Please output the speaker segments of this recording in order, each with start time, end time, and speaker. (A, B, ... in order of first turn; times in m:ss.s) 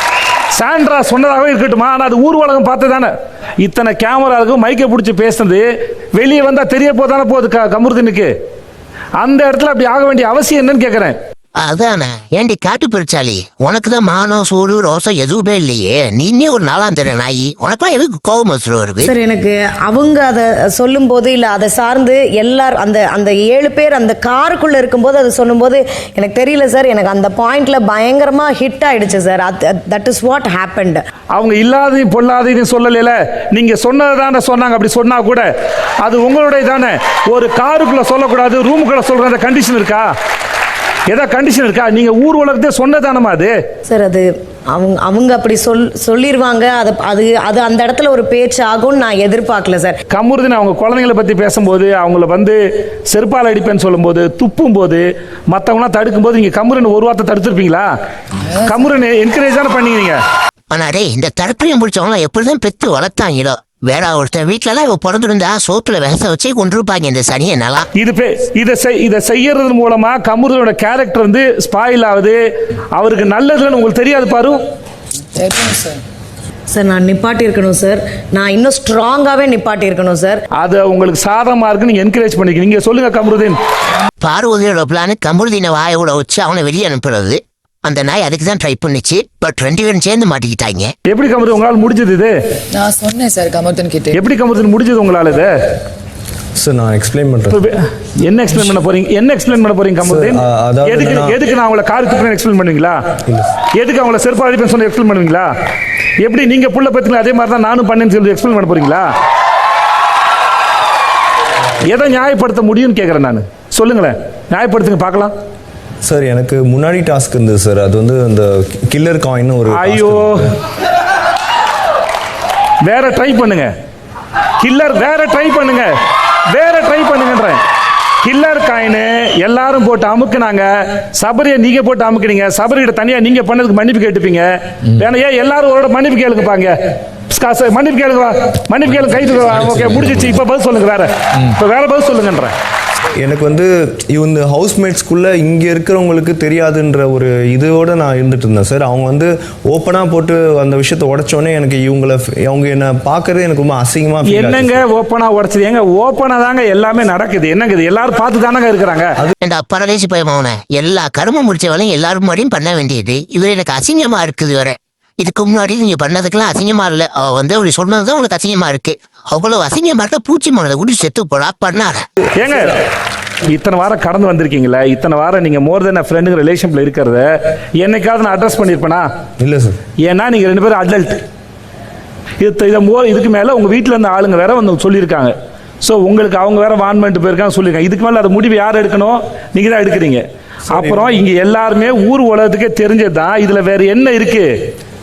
0:00.5-0:08.3 A
0:09.2-0:11.1 A
0:11.6-0:19.1 B
0:19.0-0:31.0 C
0:31.3-0:35.5 A
0:36.0-0:40.1 A
0:41.1-0:43.5 A
0:43.9-0:50.0 C
0:50.1-0:52.6 A
0:53.1-0:57.9 A
0:58.6-1:00.2 A
1:00.7-1:07.9 B
1:08.0-1:12.4 A
1:13.0-1:14.5 A
1:15.4-1:16.0 D
1:16.7-1:20.4 C
1:20.6-1:23.6 A
1:24.2-1:30.9 B
1:31.1-1:32.3 A
1:32.7-1:34.2 D
1:34.1-1:35.5 A
1:36.6-1:37.6 E
1:37.5-1:43.0 A
1:40.0-1:41.4 E
1:43.7-1:45.5 A
1:46.2-1:49.1 A
1:51.9-1:55.3 A
1:56.0-2:00.5 E
1:59.8-2:00.5 A
2:02.8-2:03.7 A
2:04.6-2:05.9 A
2:06.5-2:07.6 A
2:08.2-2:16.7 A
2:17.3-2:22.5 A
2:23.2-2:34.8 E
2:34.3-2:39.1 A
2:39.4-2:52.0 B
2:52.4-2:52.6 A
2:53.5-2:57.2 A
2:57.8-2:59.0 A
2:59.4-2:59.8 E
3:00.0-3:01.2 A
3:02.4-3:14.5 A
3:10.7-3:11.2 E